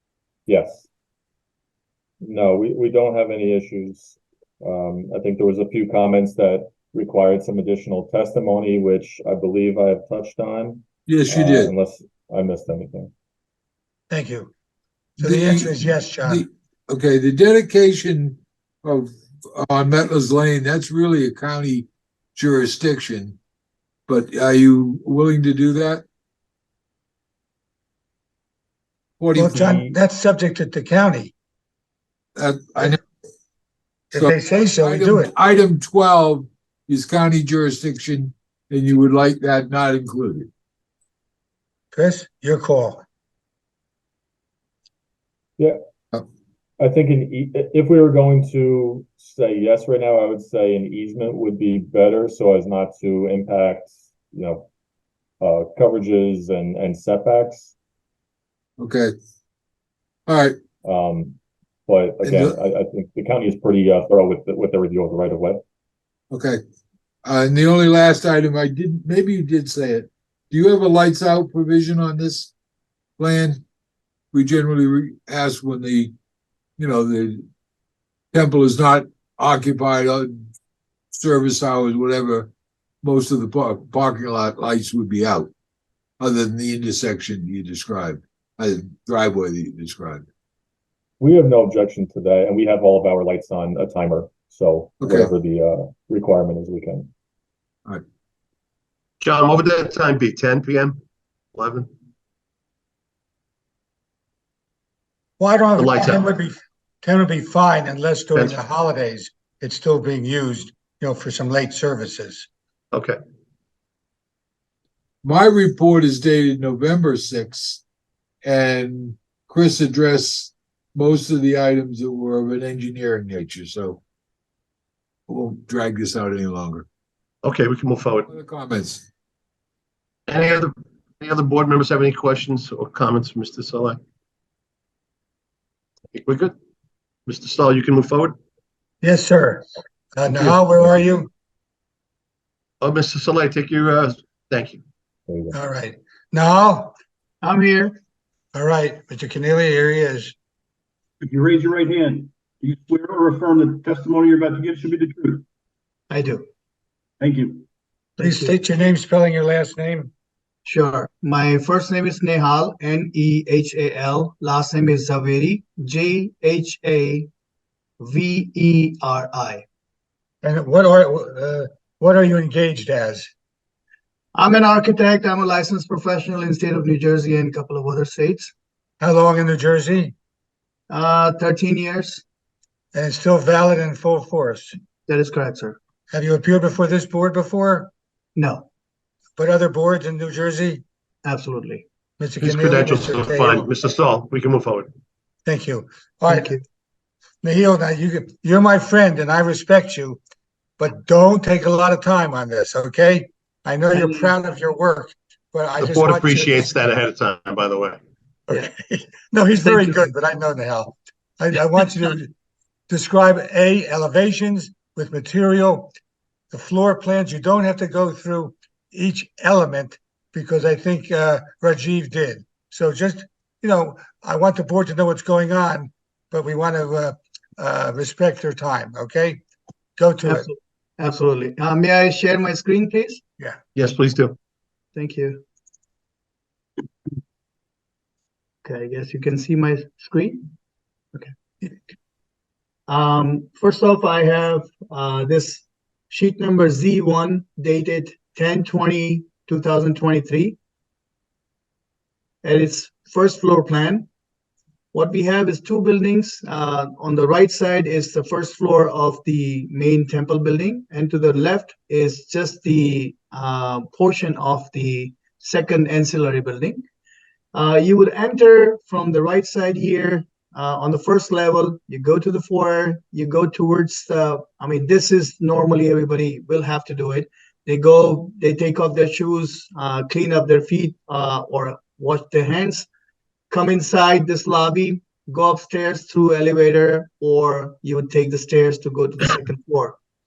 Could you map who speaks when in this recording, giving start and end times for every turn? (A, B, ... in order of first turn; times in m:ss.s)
0:00.5-0:00.9 A
0:02.2-0:13.1 A
0:11.1-0:11.7 B
0:14.1-0:14.5 C
0:15.2-0:23.4 B
0:15.2-0:16.5 C
0:24.1-0:26.0 B
0:29.2-0:29.8 B
0:29.3-0:31.3 C
0:32.4-0:33.0 B
0:34.1-0:35.3 C
0:34.2-0:40.5 B
0:41.9-0:43.0 C
0:46.8-0:54.6 A
0:55.4-0:57.7 A
0:58.8-0:59.1 B
1:00.3-1:00.6 B
1:00.8-1:01.4 A
1:01.9-1:05.6 A
1:02.2-1:02.6 B
1:06.3-1:06.6 B
1:07.2-1:12.5 B
1:13.2-1:13.6 B
1:14.3-1:16.1 B
1:16.8-1:17.4 B
1:18.3-1:20.4 B
1:21.1-1:22.5 B
1:23.0-1:25.5 B
1:26.2-1:30.2 B
1:31.2-1:37.1 A
1:35.0-1:35.3 B
1:39.2-1:41.0 D
1:41.5-1:41.9 D
1:45.4-1:52.5 C
1:45.8-1:46.2 D
1:48.3-1:48.6 D
1:52.9-1:53.2 D
1:55.2-1:57.8 B
1:58.4-2:04.0 B
2:05.3-2:06.8 B
2:07.4-2:08.3 D
2:08.3-2:09.0 B
2:10.3-2:14.0 D
2:16.1-2:16.5 D
2:17.3-2:18.3 D
2:19.0-2:19.6 C
2:20.1-2:21.3 C
2:22.8-2:24.8 D
2:25.3-2:25.5 A
2:25.5-2:26.9 C
2:27.4-2:28.0 E
2:28.5-2:30.3 C
2:31.2-2:35.4 F
2:36.1-2:36.5 E
2:37.2-2:37.6 F
2:38.2-2:38.6 E
2:38.2-2:40.1 C
2:40.6-2:47.3 E
2:48.0-2:49.6 E
2:50.4-2:53.3 C
2:54.3-2:58.5 E
2:59.0-3:00.1 C
3:00.9-3:02.2 E
3:02.9-3:04.7 C
3:05.1-3:05.8 E
3:06.1-3:07.9 C
3:08.4-3:08.7 E
3:09.4-3:10.8 C
3:11.2-3:11.8 E
3:12.2-3:13.7 C
3:12.4-3:14.9 D
3:15.4-3:16.6 C
3:16.3-3:16.6 E
3:17.4-3:20.2 C
3:20.8-3:26.7 C
3:23.9-3:24.3 E
3:25.8-3:28.0 D
3:28.5-3:32.3 C
3:29.6-3:30.0 E
3:32.9-3:35.9 C
3:36.5-3:49.4 C
3:50.0-3:50.5 C
3:50.2-3:53.2 E
3:53.8-3:54.4 D
3:54.9-3:55.4 E
3:58.6-4:00.5 E
4:01.1-4:01.7 E
4:02.9-4:10.6 E
4:12.4-4:14.1 E
4:14.9-4:26.8 E
4:27.5-4:42.9 E
4:43.5-4:50.0 E